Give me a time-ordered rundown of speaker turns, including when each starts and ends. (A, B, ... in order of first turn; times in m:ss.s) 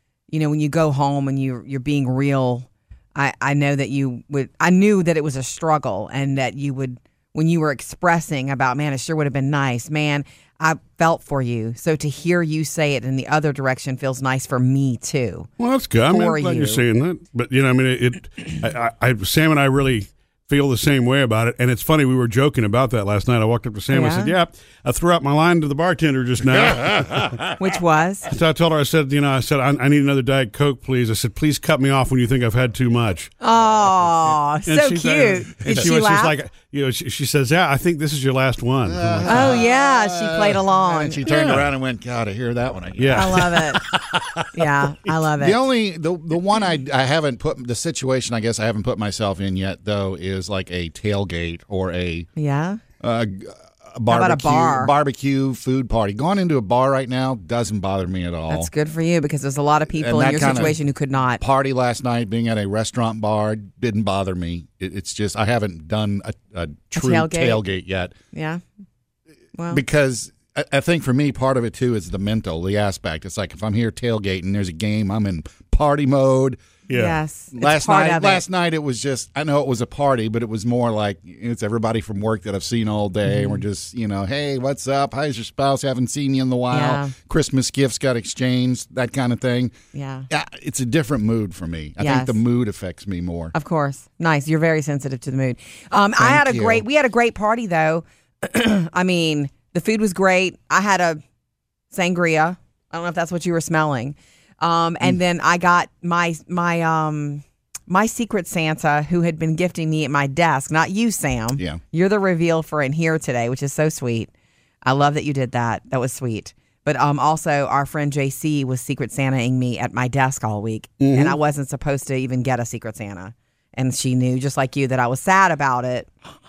0:00.3-0:15.5 A
0:15.6-0:27.5 B
0:16.1-0:16.8 A
0:23.9-0:24.4 A
0:27.6-0:28.3 A
0:28.3-0:33.3 B
0:33.4-0:36.4 A
0:34.7-0:39.6 B
0:38.9-0:44.4 C
0:39.2-0:41.2 A
0:41.3-0:41.7 B
0:43.0-0:44.0 B
0:43.1-0:43.8 A
0:44.5-0:45.6 A
0:45.4-0:52.3 C
0:52.4-0:52.8 A
0:53.0-0:58.7 C
0:54.1-0:54.9 A
0:58.5-1:01.4 A
0:59.9-1:00.8 C
1:01.4-1:08.1 C
1:07.0-1:07.6 A
1:08.3-1:08.6 A
1:09.6-1:09.8 A
1:09.7-1:16.6 C
1:16.9-1:17.2 B
1:16.9-1:18.4 A
1:17.5-1:29.7 C
1:23.3-1:23.6 A
1:26.7-1:27.1 A
1:29.9-1:30.3 A
1:30.3-1:33.5 C
1:32.0-1:32.4 A
1:33.5-1:41.2 A
1:36.2-1:36.8 C
1:41.9-1:54.3 A
1:54.8-2:06.1 A
2:01.0-2:01.4 B